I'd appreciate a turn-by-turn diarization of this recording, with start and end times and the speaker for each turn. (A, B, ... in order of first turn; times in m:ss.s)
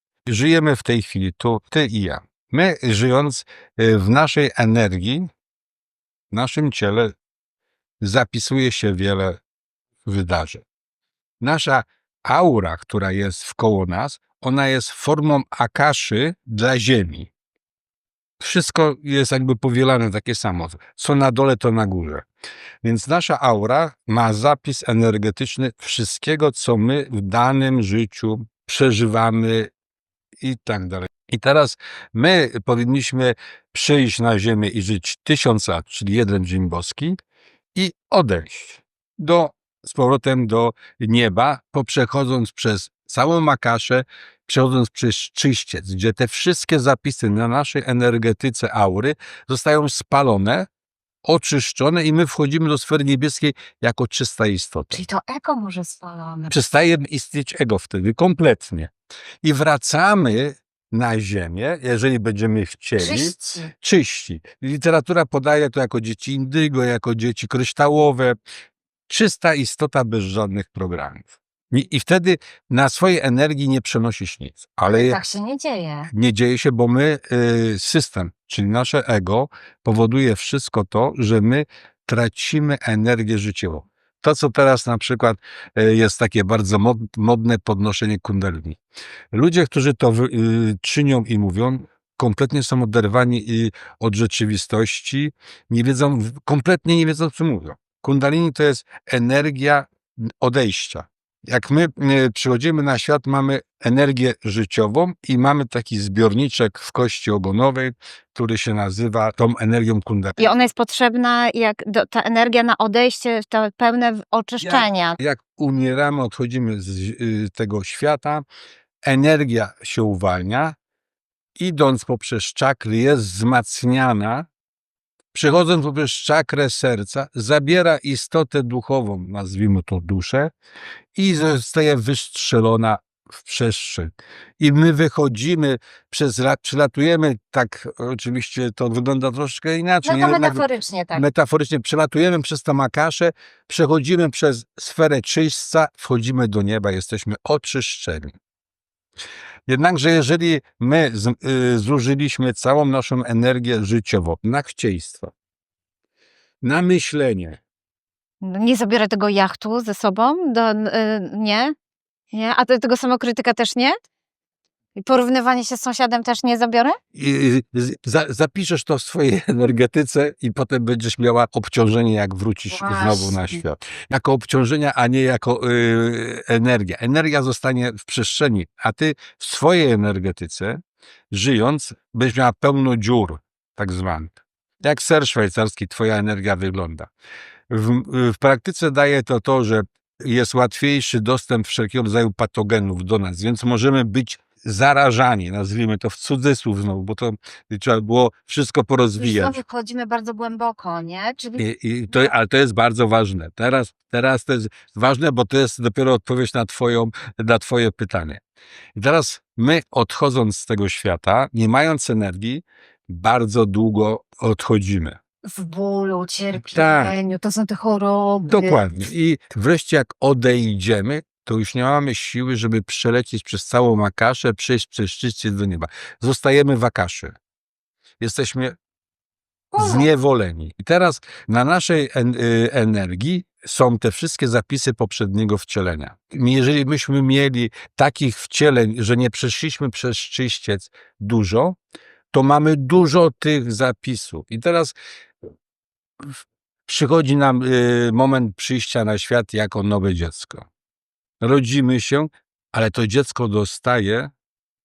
0:00.3-0:05.3 A
0:06.3-0:07.1 A
0:08.0-0:09.4 A
0:10.0-0:10.6 A
0:11.4-0:17.3 A
0:18.4-0:22.3 A
0:22.8-0:29.7 A
0:30.4-0:37.2 A
0:37.8-0:50.7 A
0:51.2-0:55.0 A
0:54.9-0:56.5 B
0:56.5-0:58.9 A
0:59.4-1:08.4 A
1:03.0-1:03.7 B
1:09.1-1:15.2 A
1:14.9-1:16.1 B
1:16.1-1:28.8 A
1:29.3-1:50.6 A
1:50.4-1:55.2 B
1:54.6-1:58.4 A
1:59.1-2:00.8 A
2:01.6-2:04.5 A
2:05.3-2:10.5 A
2:11.2-2:28.3 A
2:20.0-2:21.2 B
2:29.7-2:35.3 A
2:36.6-2:37.6 A
2:38.4-2:41.7 B
2:42.3-2:44.0 B
2:45.0-2:47.0 B
2:47.1-3:00.8 A
2:52.7-2:53.6 B
3:01.3-3:07.1 A
3:07.7-3:19.6 A
3:19.2-3:22.3 B
3:21.6-3:28.4 A
3:29.0-3:35.2 A
3:35.4-3:38.8 B
3:36.6-3:37.1 A
3:38.5-3:47.3 A
3:48.2-3:48.8 A
3:49.7-3:50.1 B
3:49.8-4:01.8 A
4:02.3-4:05.0 A
4:06.9-4:10.7 A
4:11.4-4:14.3 A